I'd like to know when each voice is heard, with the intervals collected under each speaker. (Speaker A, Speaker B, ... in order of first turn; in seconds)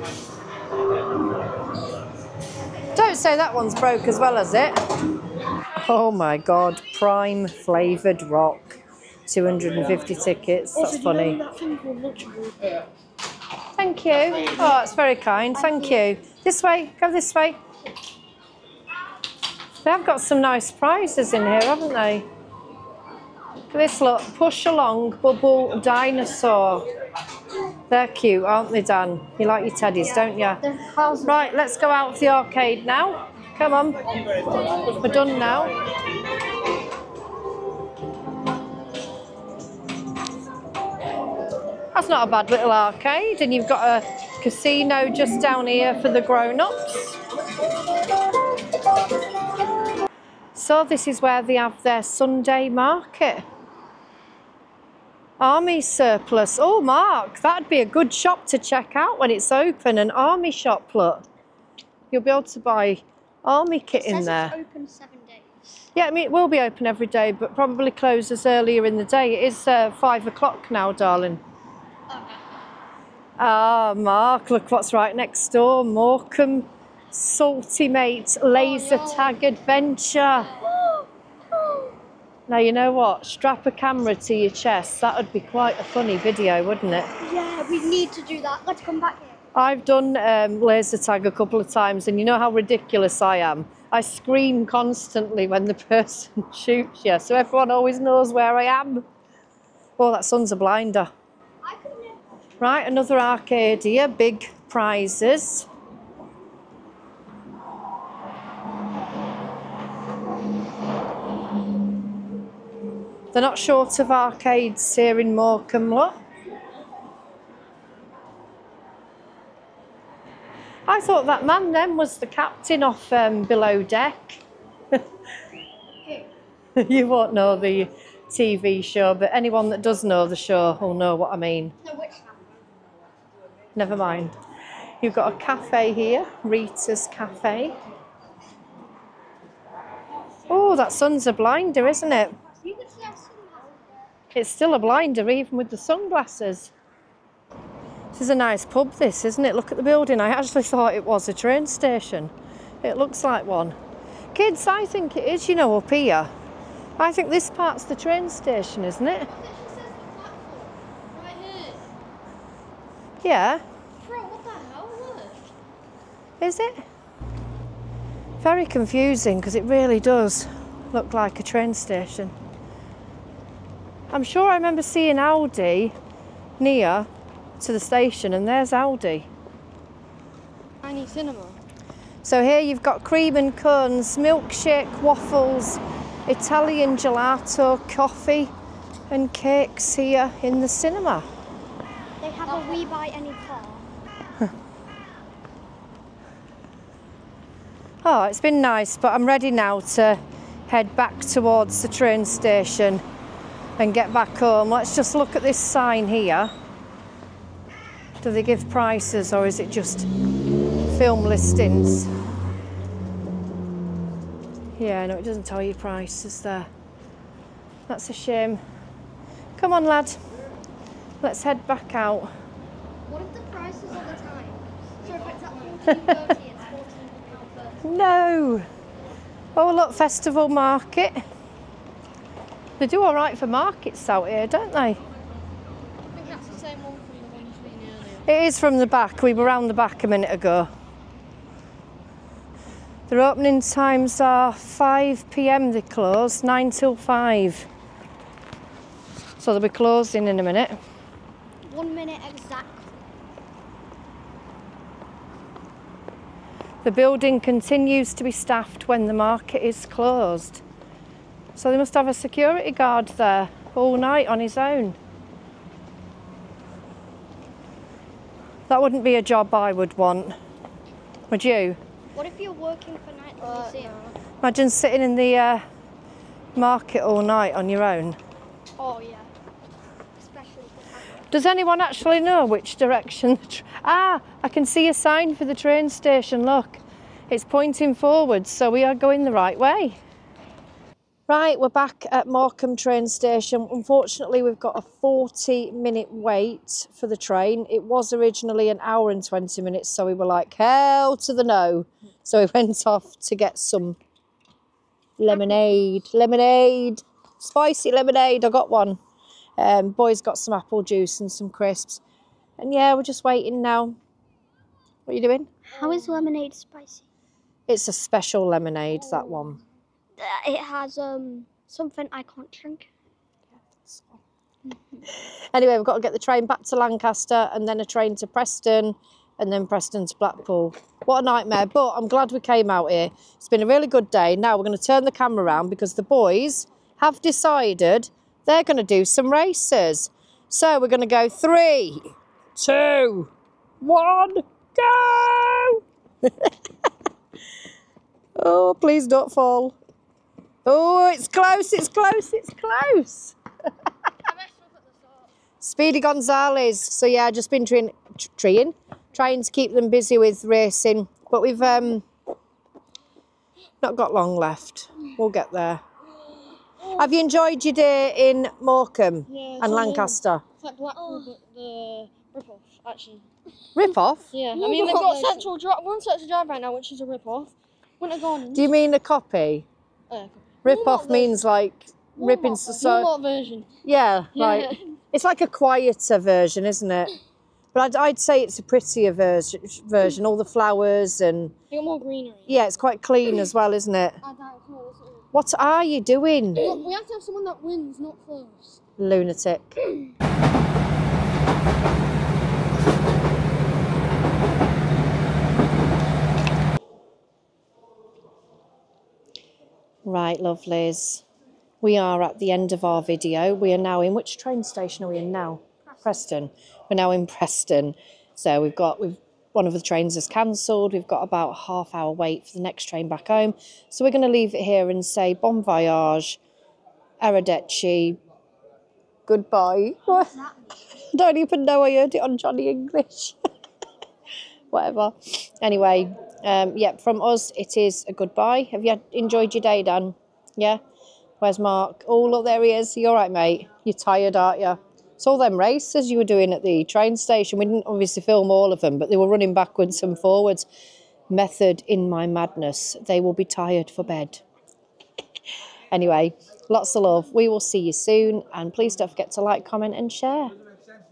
Speaker A: 2.9-4.8, 5.7-11.4, 13.8-17.6, 19.8-22.2, 23.7-26.9, 27.9-30.6, 31.2-34.0, 34.5-35.8, 41.9-47.2, 50.5-53.4, 55.4-61.2, 62.1-64.5, 65.9-71.4, 73.4-80.5, 82.5-87.1, 89.5-99.0, 100.0-101.1, 102.6-105.7, 113.3-116.2, 120.9-125.0, 126.8-131.7, 133.7-134.3, 135.0-137.7, 140.5-142.3, 144.3-146.7, 148.1-153.8, 154.3-156.3, 157.0-159.3, 163.2-163.6, 166.4-166.8, 168.4-172.3, 174.1-175.9, 176.6-177.1, 177.6-179.3, 182.2-188.5, 189.1-191.2, 198.0-203.0, 203.8-206.5, 208.2-210.1, 210.9-212.1, 214.8-216.7, 217.9-218.6, 219.6-220.2, 221.2-222.3, 227.8-228.7, 229.6-231.2, 232.8-235.0, 238.2-240.7, 243.1-247.7, 249.4-250.8, 256.8-260.6, 261.6-265.0, 268.7-270.4, 271.3-271.8, 274.4-275.6, 276.6-278.2, 281.3-290.0, 291.3-304.0, 305.2-309.0, 309.6-312.0, 312.6-313.9, 315.1-315.5, 317.7-319.6, 325.1-346.5, 348.4-349.8, 350.6-353.4, 355.6-362.0, 363.8-365.8, 367.0-370.4, 373.7-375.3, 378.5-379.6, 380.6-383.1, 383.8-387.1, 387.7-391.5, 392.5-394.2, 395.3-396.7, 399.0-399.8, 410.1-411.2, 411.8-426.4, 427.2-428.2, 429.3-430.3, 431.1-433.4, 434.7-440.8, 441.4-450.6, 451.3-454.4, 455.9-460.5
Speaker B: 10.8-12.5, 30.6-31.5, 78.5-79.3, 159.3-161.8, 164.0-165.4, 180.8-181.6, 192.5-192.8, 225.0-226.1, 236.1-238.3, 273.4-274.1, 315.8-316.1, 319.1-319.5, 354.3-354.7, 366.8-367.1, 369.3-373.2, 374.3-378.7, 380.1-381.4, 382.1-383.7, 384.4-384.8, 391.7-392.6, 394.2-395.2, 396.6-398.8
Speaker C: 15.6-16.0, 63.9-65.7, 80.5-81.1, 87.2-89.4, 101.6-102.2, 131.8-132.4, 142.4-143.9, 192.2-193.9, 223.1-227.8, 251.7-252.9, 272.1-273.9, 278.8-279.3, 280.1-281.2, 315.7-317.0, 320.2-322.9, 324.6-325.0, 371.0-371.3, 374.5-375.3, 430.1-430.8